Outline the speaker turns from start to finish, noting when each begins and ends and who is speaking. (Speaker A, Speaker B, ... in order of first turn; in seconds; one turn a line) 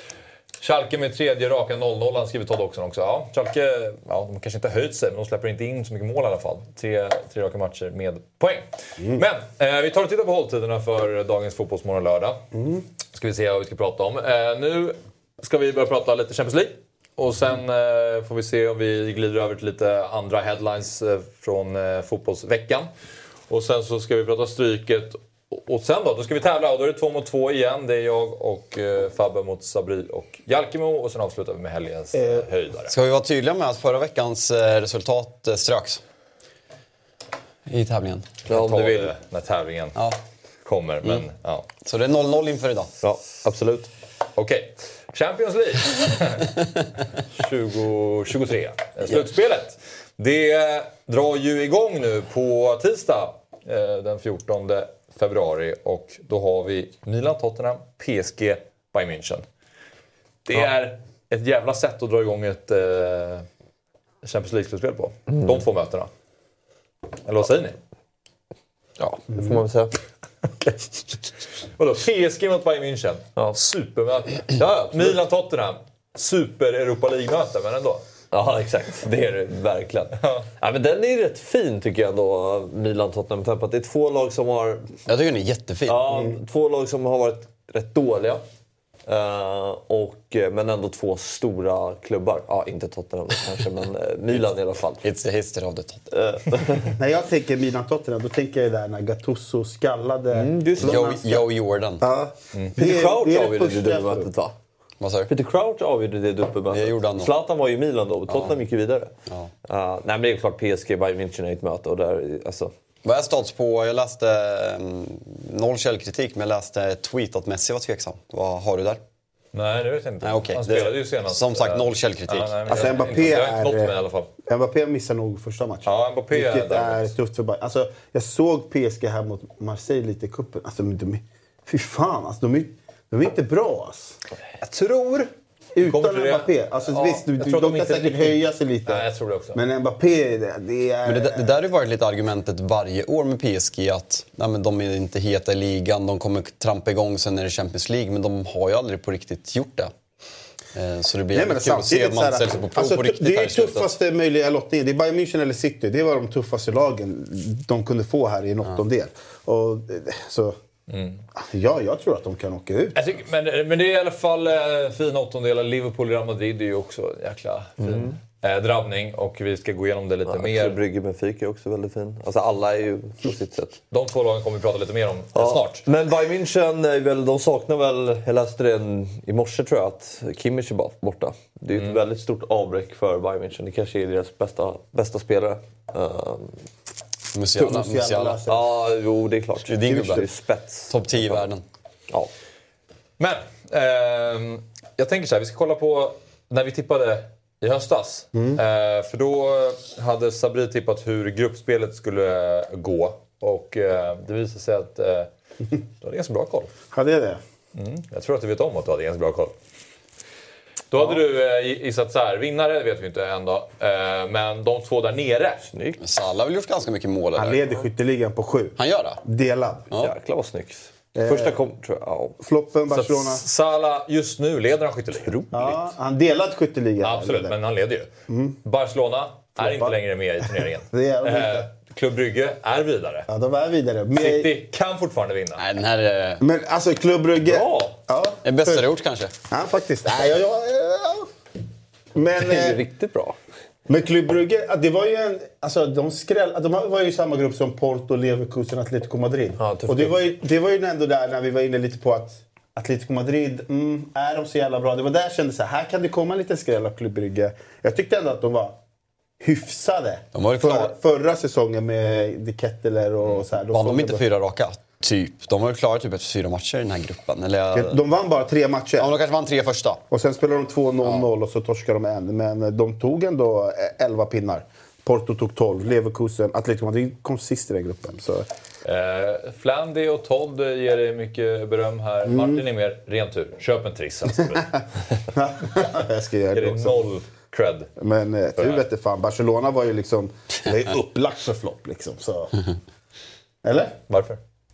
Speaker A: 0.6-12.4
Speaker B: 12.5-12.8
Speaker A: 13.1-22.9
Speaker A: 23.5-32.9
Speaker B: 32.1-32.4
Speaker C: 32.9-36.0
Speaker C: 37.7-38.3
Speaker A: 38.5-39.9
Speaker D: 38.5-39.1
Speaker A: 40.6-41.7
Speaker C: 41.8-42.9
Speaker D: 43.0-43.9
Speaker A: 44.4-46.5
Speaker A: 47.4-59.4
Speaker A: 60.5-63.5
Speaker A: 64.2-66.1
Speaker A: 67.2-67.8
Speaker D: 69.0-69.9
Speaker A: 71.8-78.0
Speaker D: 74.5-75.2
Speaker D: 78.3-84.9
Speaker C: 85.1-86.3
Speaker D: 85.9-88.4
Speaker D: 89.1-95.0
Speaker C: 95.0-96.1
Speaker D: 96.1-96.9
Speaker B: 97.0-101.5
Speaker D: 100.3-101.2
Speaker C: 100.8-102.0
Speaker B: 102.0-104.3
Speaker D: 102.8-104.5
Speaker C: 105.0-105.3
Speaker D: 105.3-109.1
Speaker C: 106.7-107.3
Speaker C: 108.3-108.6
Speaker D: 109.7-112.7
Speaker C: 113.0-119.0
Speaker A: 119.5-124.3
Speaker C: 120.2-123.0
Speaker B: 122.7-123.9
Speaker B: 124.5-134.2
Speaker A: 125.8-127.1
Speaker A: 134.6-135.3
Speaker B: 135.7-141.5
Speaker A: 135.8-139.6
Speaker C: 141.0-149.9
Speaker C: 150.7-153.9
Speaker B: 151.3-160.6
Speaker A: 160.9-161.2
Speaker B: 161.4-162.9
Speaker A: 162.9-170.8
Speaker D: 167.8-168.1
Speaker D: 170.3-173.8
Speaker A: 173.9-175.8
Speaker D: 175.3-186.6
Speaker C: 187.3-188.4
Speaker B: 187.6-188.6
Speaker D: 188.4-191.4
Speaker C: 189.7-190.3
Speaker B: 189.9-190.2
Speaker C: 190.9-191.6
Speaker A: 193.2-205.3
Speaker B: 198.3-198.6
Speaker A: 206.0-206.7
Speaker B: 206.9-207.4
Speaker A: 207.7-209.5
Speaker A: 210.9-215.6
Speaker D: 215.7-216.0
Speaker C: 216.0-217.6
Speaker B: 217.3-219.9
Speaker C: 218.8-219.2
Speaker D: 220.0-222.3
Speaker B: 221.2-221.6
Speaker B: 222.4-223.4
Speaker A: 222.9-225.8
Speaker B: 225.5-227.5
Speaker A: 227.0-228.1
Speaker B: 228.3-228.6
Speaker A: 228.6-233.2
Speaker B: 229.6-230.0
Speaker B: 230.8-231.7
Speaker B: 233.3-234.6
Speaker A: 234.2-235.6
Speaker C: 235.6-236.4
Speaker B: 236.4-238.9
Speaker D: 237.4-237.9
Speaker C: 238.4-239.3
Speaker B: 239.5-241.3
Speaker B: 242.1-242.8
Speaker D: 242.4-243.4
Speaker B: 243.9-258.8
Speaker D: 249.6-250.2
Speaker B: 259.4-264.2
Speaker C: 260.3-260.9
Speaker C: 263.2-268.0
Speaker B: 267.7-269.1
Speaker C: 269.0-270.0
Speaker B: 270.1-278.4
Speaker A: 278.8-284.7
Speaker B: 282.3-282.6
Speaker B: 285.3-287.1
Speaker A: 286.5-287.9
Speaker B: 288.0-292.5
Speaker A: 288.6-288.8
Speaker B: 293.6-293.9
Speaker A: 294.1-294.4